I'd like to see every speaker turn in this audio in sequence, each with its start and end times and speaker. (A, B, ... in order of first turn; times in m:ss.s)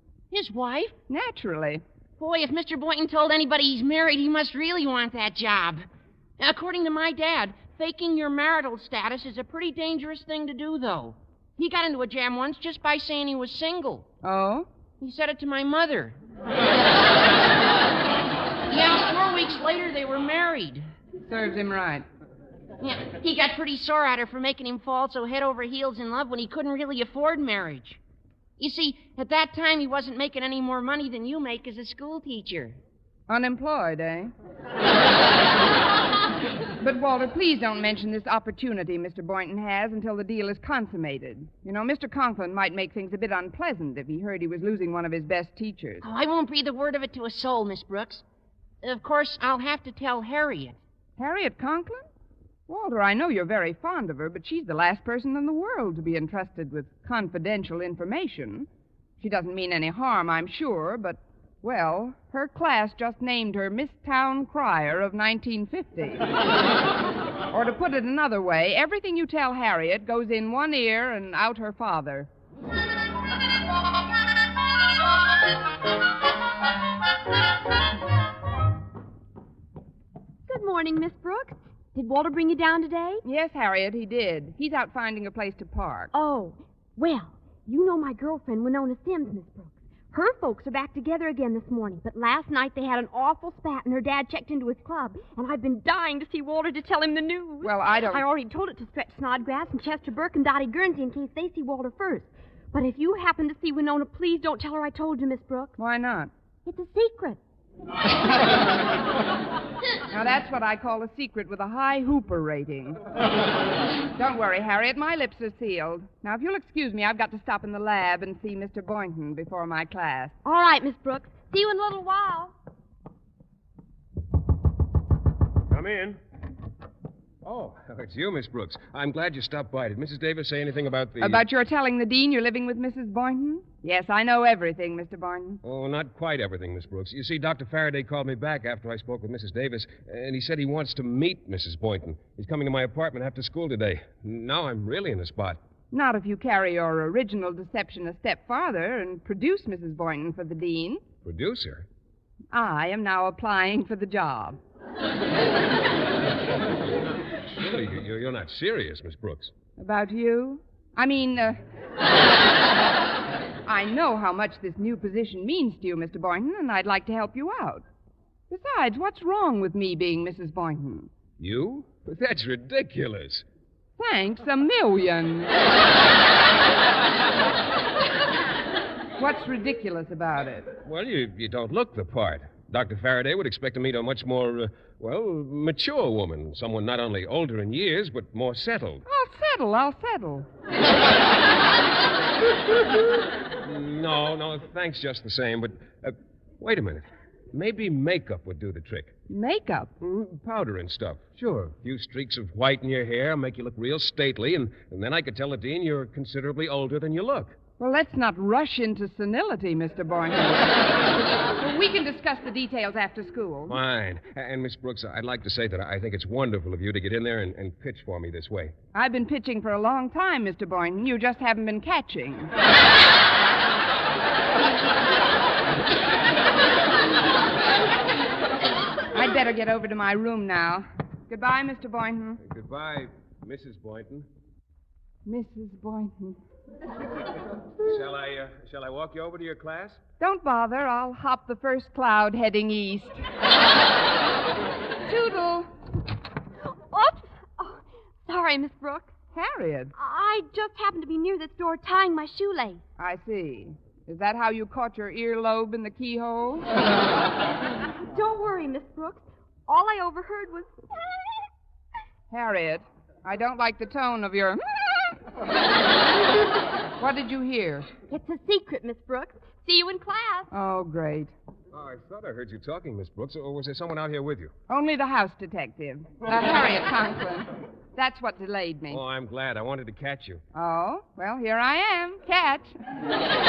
0:00.3-0:01.0 A
0:01.1-0:01.8 B
0:02.2-0:05.8 A
0:06.4-0:14.1 A
0:14.2-0:14.7 B
0:15.0-0:16.2 A
0:18.7-0:20.9 A
0:21.3-0:22.0 B
0:22.8-0:28.0 A
0:28.6-0:32.8 A
0:33.3-0:34.3 B
0:36.8-0:46.0 B
0:46.0-0:48.2 A
0:48.8-0:50.8 A
0:51.2-0:52.0 B
0:52.7-0:58.7 B
0:59.2-1:06.3 B
1:07.5-1:12.3 B
1:20.5-1:23.2 C
1:23.2-1:26.1 B
1:26.1-1:45.8 C
1:37.6-1:38.2 B
1:45.8-1:46.3 B
1:46.7-1:47.4 C
1:50.1-1:53.0 B
1:54.2-2:00.4 B
2:00.4-2:02.5 C
2:05.7-2:06.2 D
2:07.4-2:11.5 D
2:11.2-2:15.6 B
2:15.6-2:25.6 D
2:25.9-2:31.0 B
2:31.2-2:31.9 D
2:32.5-2:34.6 B
2:37.6-2:39.5 D
2:39.8-2:41.6 B
2:43.6-2:47.8 B
2:48.5-2:51.1 B
2:51.4-2:53.4 D
2:54.0-2:55.6 B
2:59.2-3:00.7 B
3:00.8-3:09.0 D
3:09.1-3:10.5 B
3:13.6-3:19.1 D
3:19.3-3:19.9 B
3:20.0-3:27.6 D
3:27.8-3:30.8 B
3:31.6-3:33.8 B
3:33.7-3:38.7 D
3:38.9-3:42.5 B
3:49.1-3:52.4 B
3:52.4-3:54.3 D
3:55.2-3:56.4 B
3:57.8-4:00.0 D
4:00.2-4:03.2 B
4:05.1-4:05.7 B
4:06.7-4:09.1 C
4:09.3-4:10.0 B
4:10.0-4:12.8 C
4:13.0-4:16.7 B
4:18.0-4:20.7 C
4:22.3-4:25.0 B
4:27.0-4:27.9 B
4:28.1-4:30.5 C
4:30.5-4:31.3 B
4:31.7-4:34.5 D
4:34.7-4:39.0 B
4:38.9-4:40.4 D
4:40.5-4:42.8 B